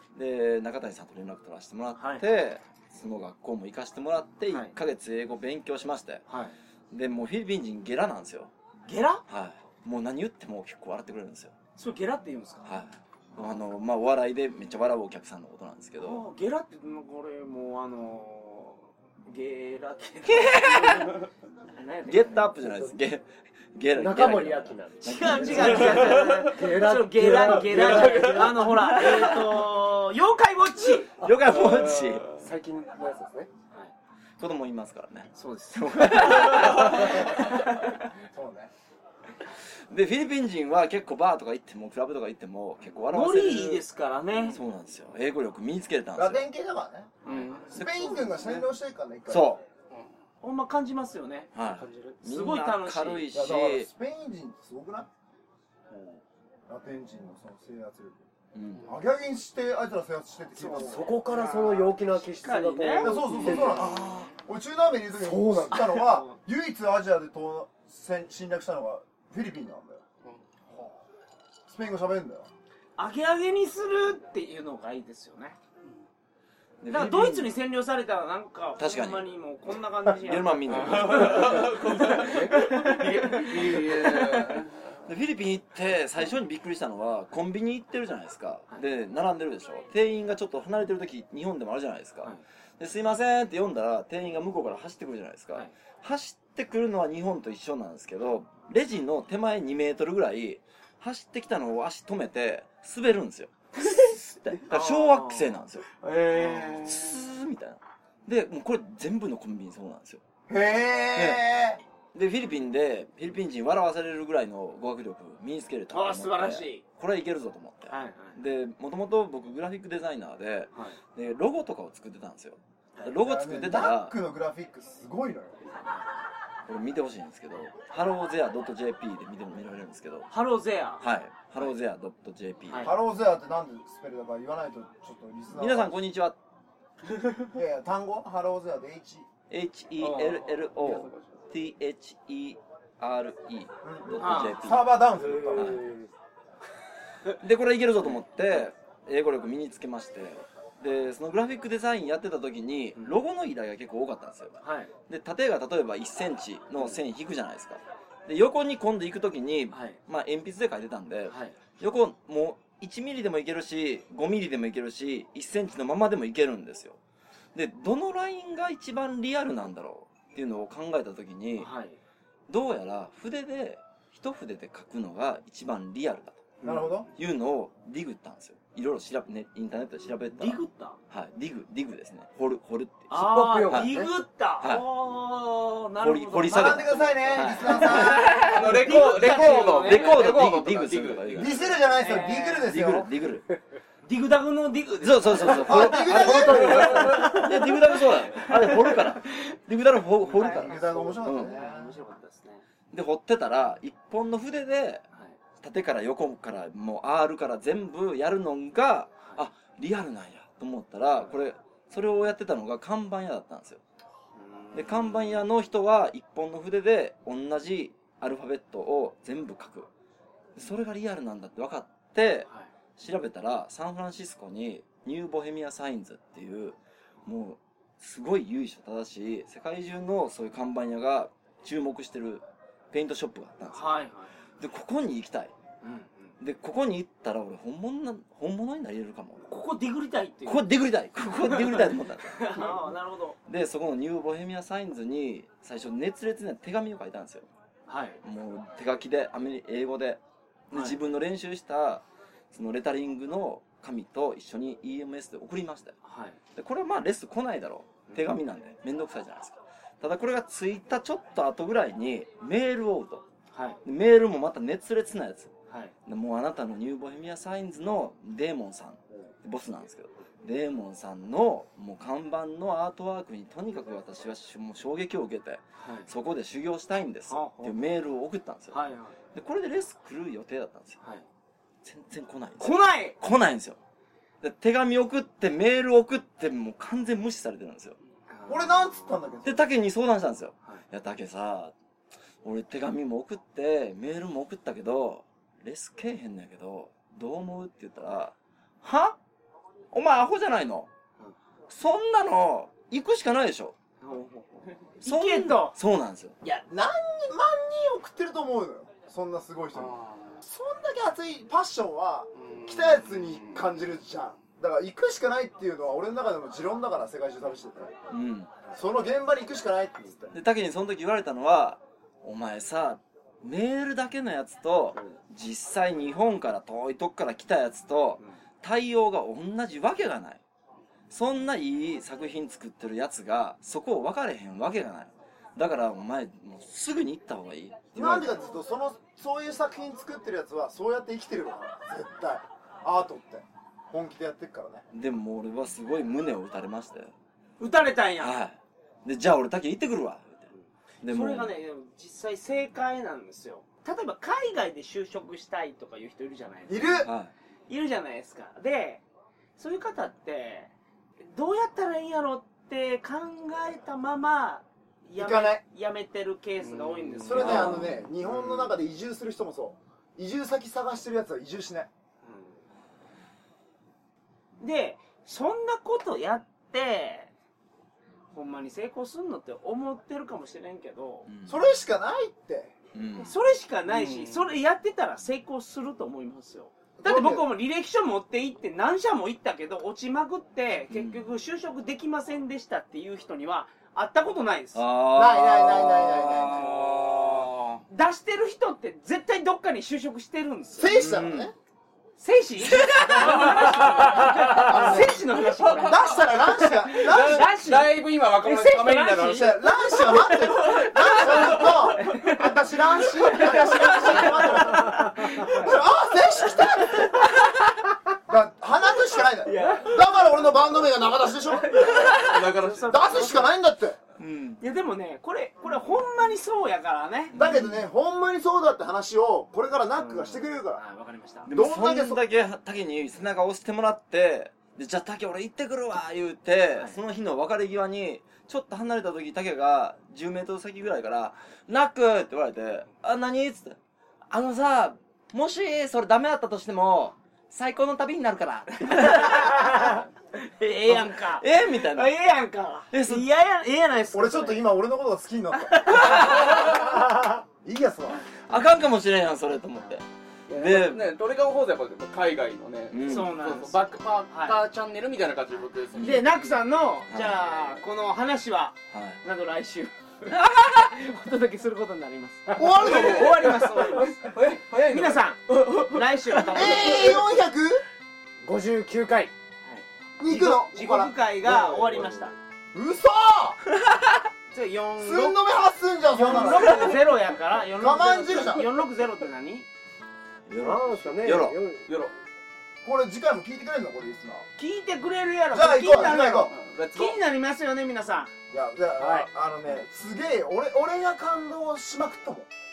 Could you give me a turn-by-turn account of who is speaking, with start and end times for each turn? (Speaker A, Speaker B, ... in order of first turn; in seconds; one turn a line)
Speaker A: 0.1-6.2
Speaker B: 1.9-2.2
Speaker B: 6.3-6.5
Speaker A: 6.9-8.5
Speaker B: 8.9-9.2
Speaker A: 9.3-11.5
Speaker B: 11.8-12.7
Speaker A: 12.6-16.2
Speaker B: 16.0-21.1
Speaker A: 20.3-21.1
Speaker B: 21.7-22.4
Speaker A: 22.1-26.3
Speaker C: 22.6-22.9
Speaker C: 23.9-29.4
Speaker B: 25.0-31.1
Speaker A: 31.2-32.3
Speaker C: 31.2-33.5
Speaker A: 34.4-37.5
Speaker B: 35.3-38.0
Speaker D: 38.2-38.7
Speaker A: 39.9-43.9
Speaker B: 43.1-44.6
Speaker A: 44.4-46.4
Speaker D: 46.1-47.2
Speaker B: 47.2-47.7
Speaker E: 47.3-47.7
Speaker A: 47.7-48.5
Speaker D: 47.7-49.6
Speaker A: 49.3-49.6
Speaker B: 50.4-51.5
Speaker A: 51.5-53.9
Speaker C: 51.7-52.2
Speaker B: 52.2-53.2
Speaker D: 53.3-55.1
Speaker D: 56.7-58.2
Speaker A: 58.5-58.9
Speaker D: 58.8-61.2
Speaker C: 60.6-64.2
Speaker B: 60.6-63.2
Speaker D: 63.0-70.0
Speaker C: 65.2-66.1
Speaker B: 66.0-66.4
Speaker D: 71.7-72.5
Speaker B: 73.0-75.6
Speaker A: 76.8-77.6
Speaker B: 76.9-84.5
Speaker A: 78.8-79.3
Speaker A: 80.2-81.8
Speaker E: 80.7-84.8
Speaker A: 85.1-105.9
Speaker B: 103.8-105.5
Speaker B: 106.0-107.0
Speaker A: 106.8-110.2
Speaker D: 110.5-111.8
Speaker A: 111.1-111.4
Speaker A: 112.1-124.1
Speaker B: 115.9-116.8
Speaker B: 117.9-118.4
Speaker D: 123.2-125.8
Speaker A: 126.7-130.3
Speaker B: 130.3-131.0
Speaker A: 131.0-132.9
Speaker B: 132.7-132.9
Speaker D: 132.8-135.9
Speaker A: 135.5-136.4
Speaker D: 137.5-139.3
Speaker A: 139.5-144.9
Speaker B: 140.0-140.4
Speaker D: 143.8-145.8
Speaker B: 144.2-144.6
Speaker C: 145.2-146.1
Speaker A: 145.5-145.8
Speaker A: 147.4-167.0
Speaker B: 154.6-154.9
Speaker B: 159.7-160.0
Speaker B: 161.3-161.6
Speaker A: 167.5-171.7
Speaker B: 171.6-172.0
Speaker A: 172.5-176.5
Speaker B: 176.6-177.1
Speaker D: 176.6-177.1
Speaker A: 177.2-180.6
Speaker B: 180.4-181.0
Speaker A: 181.1-183.1
Speaker B: 183.1-190.2
Speaker C: 183.1-184.1
Speaker A: 186.0-191.6
Speaker D: 186.5-188.4
Speaker E: 188.3-191.5
Speaker D: 191.3-193.1
Speaker B: 192.0-192.7
Speaker A: 192.6-193.4
Speaker B: 194.1-196.0
Speaker A: 195.0-201.5
Speaker D: 195.5-197.2
Speaker C: 196.0-197.4
Speaker E: 196.8-197.4
Speaker B: 198.3-199.4
Speaker B: 200.3-202.6
Speaker D: 200.3-201.9
Speaker A: 202.9-205.0
Speaker A: 205.6-213.8
Speaker B: 214.4-215.4
Speaker A: 214.7-219.9
Speaker A: 220.6-234.0
Speaker B: 233.7-234.3
Speaker A: 234.6-235.5
Speaker B: 235.8-236.3
Speaker A: 236.4-239.5
Speaker B: 239.5-240.6
Speaker A: 240.4-242.8
Speaker B: 241.2-243.4
Speaker A: 243.4-247.5
Speaker B: 247.9-248.2
Speaker A: 248.2-255.9
Speaker B: 250.7-251.0
Speaker B: 256.0-256.4
Speaker A: 256.6-263.2
Speaker B: 263.5-263.8
Speaker A: 263.9-265.5
Speaker A: 266.1-278.8
Speaker B: 275.8-276.1
Speaker B: 277.3-277.7
Speaker B: 278.7-279.1
Speaker A: 279.3-281.0
Speaker A: 281.8-283.8
Speaker B: 282.6-283.1
Speaker A: 284.4-288.0
Speaker B: 288.3-288.7
Speaker D: 288.5-289.7
Speaker A: 289.4-291.7
Speaker A: 292.4-299.2
Speaker A: 299.9-300.9
Speaker A: 301.7-303.8
Speaker B: 304.0-305.7
Speaker A: 305.0-306.4
Speaker D: 306.4-317.9
Speaker E: 309.8-310.4
Speaker E: 312.4-313.6
Speaker A: 318.1-318.5
Speaker D: 318.7-320.4
Speaker A: 320.3-330.4
Speaker A: 331.1-338.4
Speaker D: 337.9-344.9
Speaker A: 344.9-347.1
Speaker B: 347.6-348.3
Speaker A: 348.2-350.5
Speaker A: 351.0-351.5
Speaker B: 351.0-357.1
Speaker D: 356.7-357.1
Speaker A: 357.0-357.3
Speaker B: 357.7-359.0
Speaker B: 359.6-360.7
Speaker B: 361.3-367.9
Speaker D: 365.2-365.6
Speaker E: 366.6-367.6
Speaker D: 367.2-371.9
Speaker A: 367.3-368.0
Speaker B: 372.2-372.5
Speaker B: 374.6-377.3
Speaker B: 378.3-381.3
Speaker A: 381.3-381.6
Speaker D: 381.4-382.7
Speaker A: 382.9-383.3
Speaker B: 383.2-394.8
Speaker E: 384.0-384.4
Speaker D: 387.0-387.5
Speaker A: 390.9-391.2
Speaker A: 394.7-397.4
Speaker D: 395.1-396.7
Speaker E: 396.8-397.8
Speaker B: 397.9-400.9
Speaker D: 400.8-401.5
Speaker A: 400.9-401.5
Speaker B: 402.2-412.5
Speaker A: 402.8-403.5
Speaker E: 403.2-404.3
Speaker D: 404.4-407.5
Speaker E: 405.4-406.0
Speaker E: 406.9-409.6
Speaker D: 409.2-417.3
Speaker E: 410.1-412.3
Speaker B: 413.2-415.8
Speaker B: 416.5-417.3
Speaker D: 418.3-422.1
Speaker B: 419.4-420.2
Speaker B: 421.4-423.5
Speaker E: 422.1-423.1
Speaker D: 422.9-424.0
Speaker A: 424.2-424.6
Speaker B: 424.6-427.4
Speaker A: 427.3-427.8
Speaker D: 427.3-430.8
Speaker B: 430.0-431.5
Speaker A: 431.4-443.8
Speaker D: 431.5-432.2
Speaker A: 444.3-450.0
Speaker B: 448.8-454.7
Speaker A: 450.9-452.1
Speaker A: 452.9-453.2
Speaker D: 454.1-458.2
Speaker B: 455.6-456.8
Speaker A: 458.5-461.1
Speaker E: 460.5-466.6
Speaker A: 462.9-463.3
Speaker B: 463.0-464.6
Speaker A: 465.9-466.2
Speaker B: 466.0-477.2
Speaker A: 467.1-467.4
Speaker A: 468.9-469.2
Speaker D: 472.5-473.5
Speaker E: 472.7-476.7
Speaker D: 476.5-477.8
Speaker C: 478.4-479.3
Speaker B: 479.6-482.3
Speaker D: 480.2-481.1
Speaker D: 482.7-483.6
Speaker B: 484.5-485.4
Speaker D: 485.0-487.0
Speaker B: 486.1-489.7
Speaker D: 487.8-488.7
Speaker A: 490.5-491.6
Speaker C: 490.6-491.9
Speaker E: 491.9-492.1
Speaker D: 492.8-494.5
Speaker B: 494.6-498.3
Speaker D: 495.5-496.5
Speaker E: 496.5-497.2
Speaker D: 498.5-502.5
Speaker C: 499.0-499.3